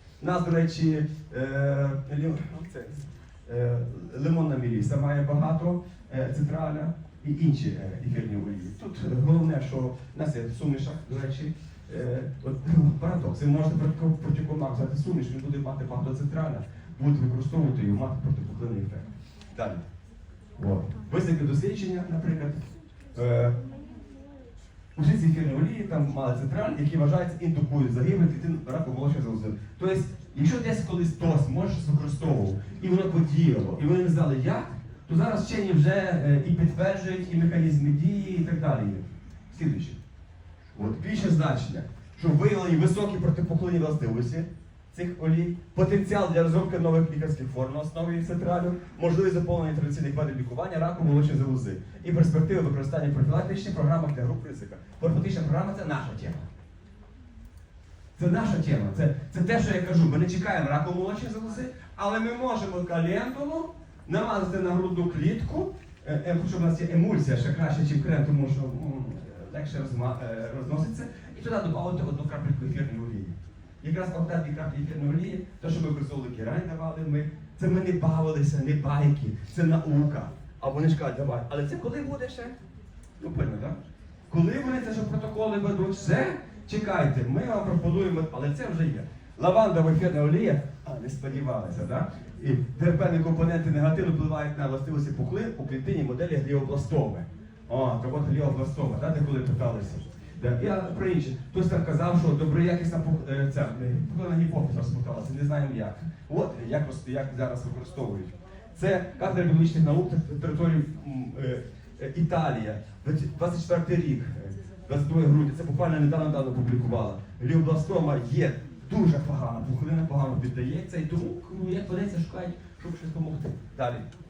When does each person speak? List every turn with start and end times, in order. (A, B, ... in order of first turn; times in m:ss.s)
0:00.2-0:19.8 A
0:20.6-0:23.5 A
0:25.0-0:40.0 A
0:40.7-0:56.5 A
0:58.2-1:22.6 A
1:23.2-1:23.8 A
1:24.3-2:04.1 A